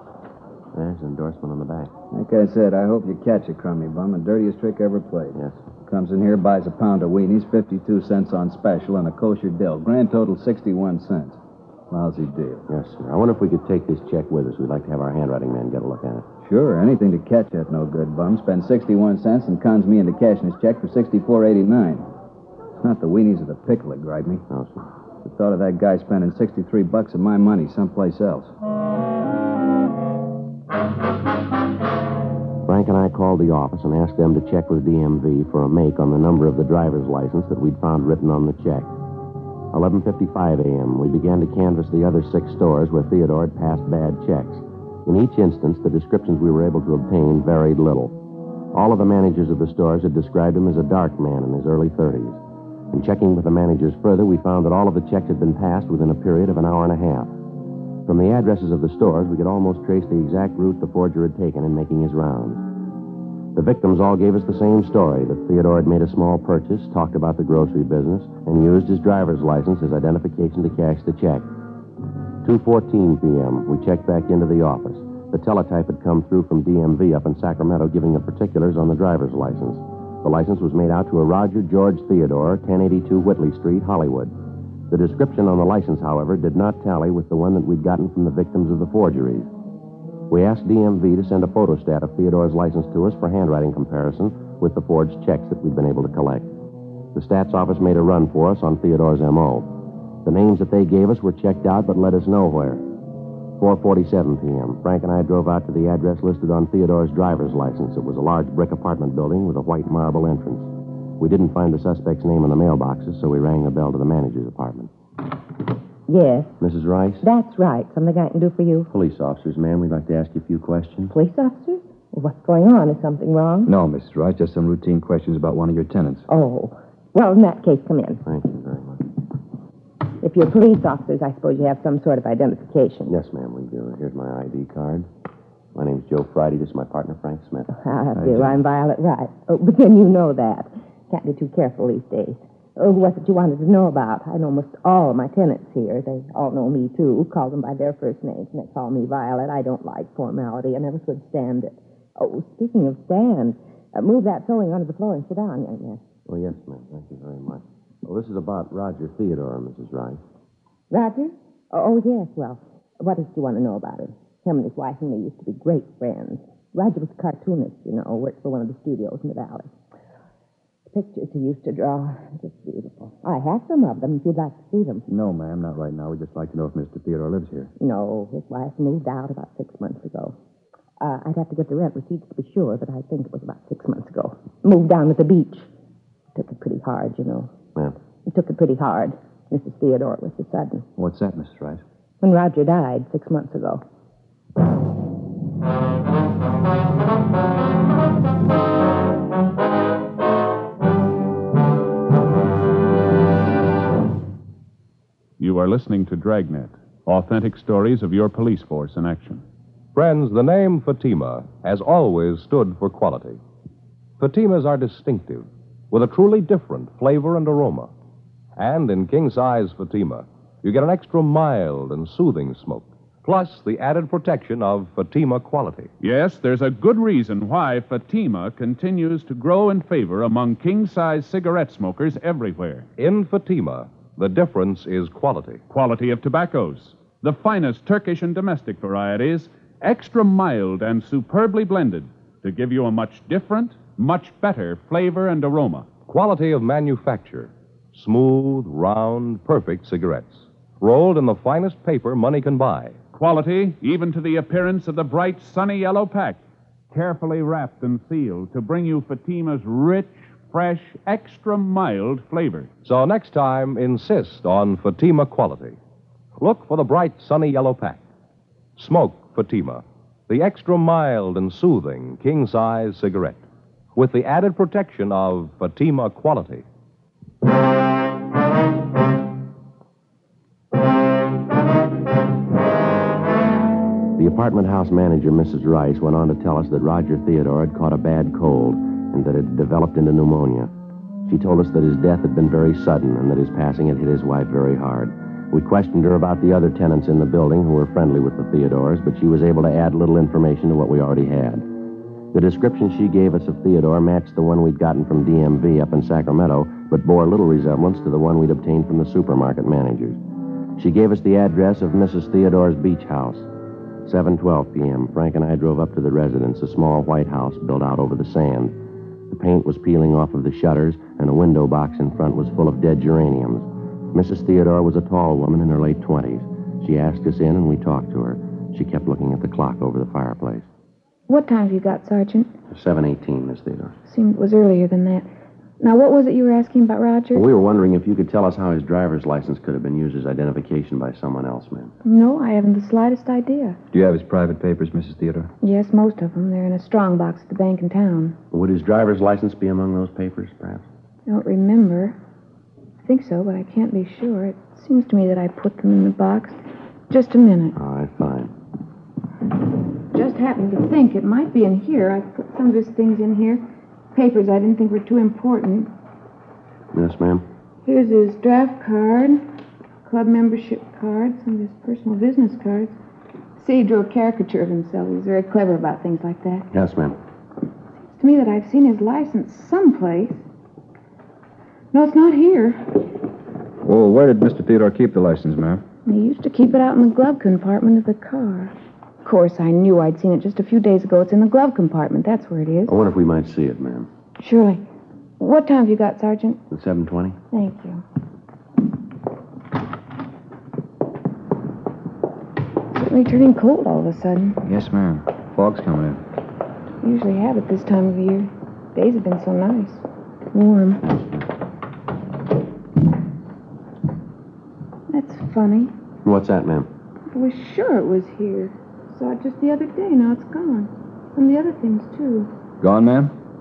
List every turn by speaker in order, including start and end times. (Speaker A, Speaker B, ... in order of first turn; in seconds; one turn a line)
Speaker A: 0.7-1.9
Speaker B: 2.1-11.4
Speaker B: 11.9-12.7
Speaker A: 12.7-16.2
Speaker B: 16.4-22.1
Speaker B: 22.8-24.4
Speaker A: 24.5-24.8
Speaker B: 25.2-28.5
Speaker A: 32.6-38.9
Speaker A: 39.7-48.1
Speaker A: 48.7-52.4
Speaker A: 52.9-57.3
Speaker A: 58.0-62.6
Speaker A: 63.5-71.5
Speaker A: 72.4-84.3
Speaker A: 84.9-89.5
Speaker A: 90.3-96.5
Speaker A: 97.1-99.7
Speaker A: 100.2-102.8
Speaker A: 103.6-114.9
Speaker C: 116.1-116.5
Speaker A: 116.6-117.2
Speaker C: 117.2-118.9
Speaker A: 118.9-121.1
Speaker C: 121.1-123.7
Speaker D: 123.7-126.2
Speaker C: 126.3-128.2
Speaker A: 128.2-129.0
Speaker C: 130.2-133.1
Speaker A: 133.1-135.1
Speaker A: 135.7-137.7
Speaker C: 137.7-156.0
Speaker D: 138.2-138.6
Speaker A: 156.3-160.2
Speaker C: 160.9-169.7
Speaker C: 170.9-175.1
Speaker D: 175.1-177.7
Speaker C: 177.8-180.3
Speaker C: 181.0-185.7
Speaker C: 186.3-187.5
Speaker C: 188.3-190.8
Speaker D: 191.0-191.8
Speaker C: 192.2-193.8
Speaker E: 205.4-209.4
Speaker F: 209.9-213.4
Speaker F: 214.2-217.9
Speaker F: 218.6-225.9
Speaker E: 226.0-232.9
Speaker F: 233.0-235.6
Speaker E: 235.7-245.9
Speaker F: 246.1-253.0
Speaker E: 253.1-256.4
Speaker E: 256.9-262.7
Speaker F: 262.8-265.8
Speaker F: 266.4-268.0
Speaker F: 268.8-273.4
Speaker F: 273.9-276.6
Speaker A: 284.2-290.7
Speaker A: 291.3-301.6
Speaker A: 302.3-310.2
Speaker A: 310.8-313.5
Speaker A: 314.0-318.7
Speaker A: 319.3-330.6
Speaker G: 331.3-332.5
Speaker A: 332.7-333.9
Speaker G: 334.1-335.3
Speaker G: 335.8-337.4
Speaker A: 337.3-341.9
Speaker G: 342.0-343.8
Speaker D: 343.9-345.5
Speaker G: 345.6-348.4
Speaker A: 348.5-350.8
Speaker G: 351.3-352.1
Speaker G: 353.0-356.6
Speaker G: 357.1-357.8
Speaker A: 357.8-358.5
Speaker G: 360.1-365.9
Speaker A: 366.9-367.4
Speaker G: 367.8-369.4
Speaker G: 370.0-372.9
Speaker G: 373.6-376.7
Speaker A: 376.7-377.2
Speaker G: 378.1-380.4
Speaker G: 381.9-383.0
Speaker D: 383.8-385.8
Speaker G: 386.1-388.7
Speaker G: 389.2-392.9
Speaker A: 392.9-394.1
Speaker G: 394.4-394.8
Speaker G: 395.4-396.6
Speaker A: 396.7-397.4
Speaker G: 397.5-398.0
Speaker G: 402.9-404.6
Speaker D: 404.6-406.2
Speaker G: 407.0-411.0
Speaker A: 411.0-411.4
Speaker G: 415.1-415.9
Speaker A: 416.2-416.9
Speaker G: 417.3-422.5
Speaker D: 422.8-423.3